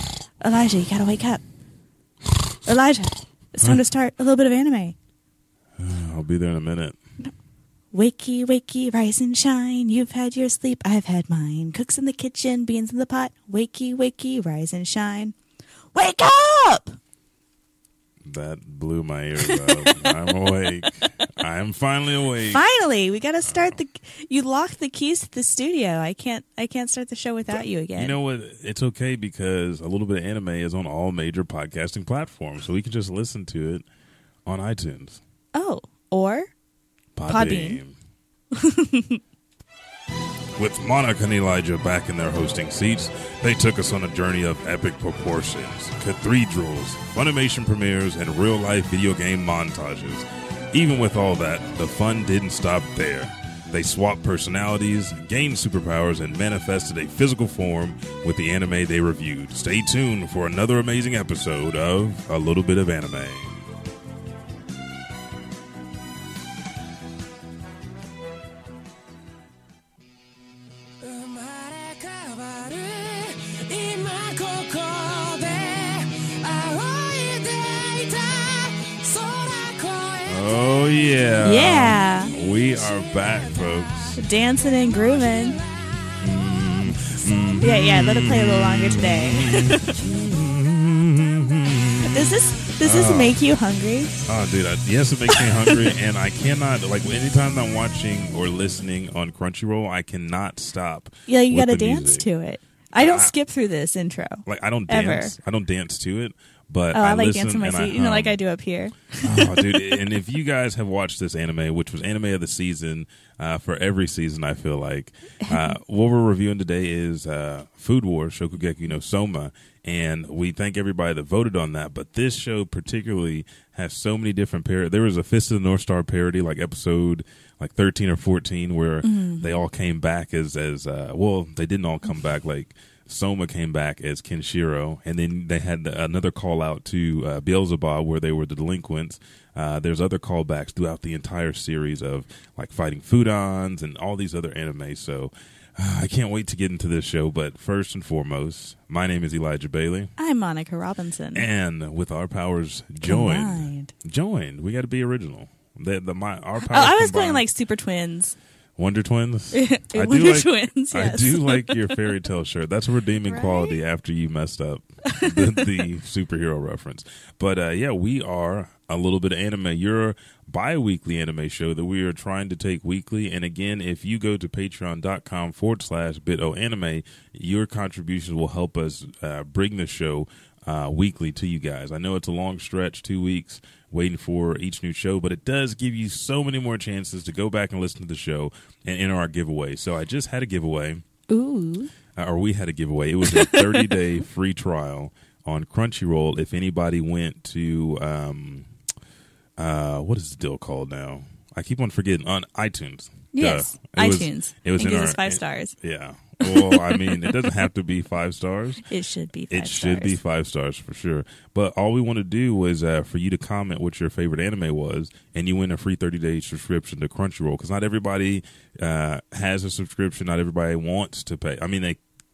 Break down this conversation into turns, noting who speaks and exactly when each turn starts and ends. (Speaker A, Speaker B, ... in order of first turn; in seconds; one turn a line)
Speaker A: 0.4-1.4
Speaker A: 2.6-5.0
Speaker B: 5.8-7.0
Speaker A: 7.9-15.3
Speaker A: 15.9-17.0
Speaker B: 18.2-22.6
Speaker A: 19.4-21.1
Speaker A: 22.4-28.2
Speaker B: 23.5-23.8
Speaker B: 27.5-33.9
Speaker B: 34.5-35.2
Speaker A: 35.5-36.5
Speaker B: 37.2-38.0
Speaker A: 37.3-37.8
Speaker A: 38.5-39.2
Speaker B: 40.6-63.6
Speaker C: 71.0-81.0
Speaker B: 80.3-84.2
Speaker A: 81.4-82.3
Speaker C: 82.3-84.2
Speaker A: 84.2-85.6
Speaker C: 84.9-87.1
Speaker B: 86.2-93.4
Speaker A: 87.6-89.9
Speaker A: 92.0-94.2
Speaker B: 94.3-102.3
Speaker A: 95.3-95.9
Speaker A: 101.3-105.3
Speaker B: 103.0-103.3
Speaker B: 104.5-108.4
Speaker A: 106.9-110.0
Speaker B: 109.2-150.1
Speaker A: 115.4-115.7
Speaker A: 129.0-129.5
Speaker A: 150.2-151.5
Speaker B: 151.3-157.4
Speaker A: 153.0-153.9
Speaker A: 156.6-158.4
Speaker B: 158.8-191.0
Speaker A: 159.5-162.0
Speaker A: 163.3-163.8
Speaker A: 165.1-165.8
Speaker A: 191.3-191.9
Speaker B: 192.2-198.7
Speaker A: 193.3-193.9
Speaker B: 199.6-208.8
Speaker A: 203.3-205.8
Speaker A: 206.4-207.5
Speaker A: 208.9-210.2
Speaker B: 209.5-222.0